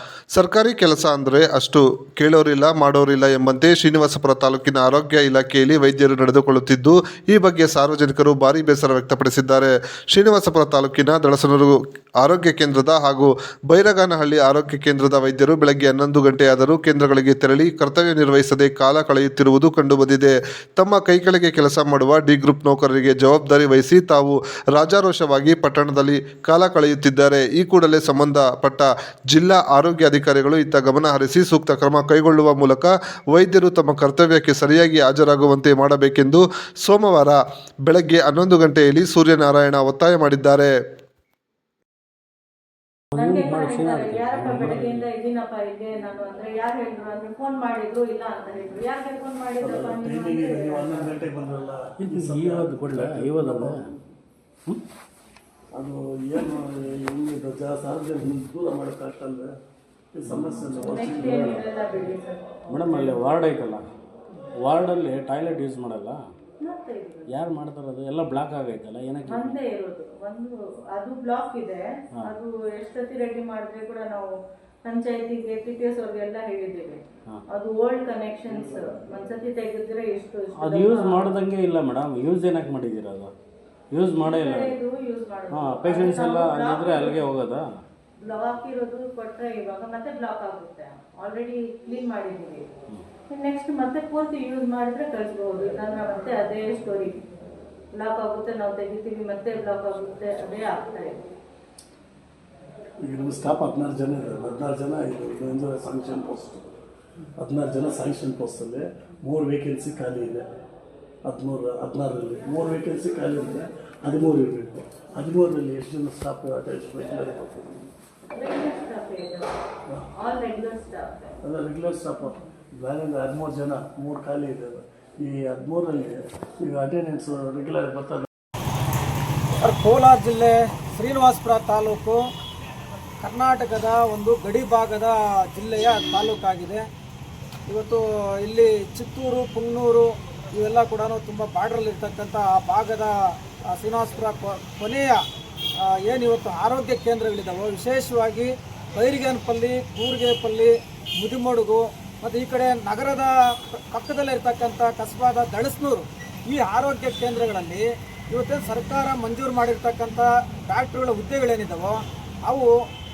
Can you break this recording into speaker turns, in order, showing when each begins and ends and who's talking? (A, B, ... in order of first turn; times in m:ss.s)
0:00.3-0:40.7 A
0:43.1-0:45.1 B
0:43.1-0:51.1 C
0:49.6-0:54.0 D
0:52.0-0:53.9 B
0:55.7-0:59.5 D
1:00.1-1:01.4 D
1:00.3-1:01.6 B
1:00.7-1:03.2 C
1:02.7-1:03.8 B
1:04.6-1:06.2 B
1:06.6-1:07.3 C
1:07.3-1:09.6 B
1:09.3-1:14.3 C
1:14.8-1:21.3 C
1:18.5-1:18.9 D
1:20.6-1:23.3 B
1:24.0-1:24.8 B
1:24.2-1:27.2 C
1:25.5-1:27.8 B
1:28.2-1:32.7 C
1:33.3-1:37.2 C
1:37.9-1:41.3 C
1:43.0-1:46.7 D
1:47.4-1:50.4 D
1:51.3-1:57.9 D
1:58.3-1:59.5 C
2:00.1-2:01.4 C
2:01.4-2:08.3 D
2:09.6-2:12.2 E
2:13.2-2:16.8 E
2:17.7-2:23.1 E
2:23.7-2:25.2 E
2:25.8-2:42.8 E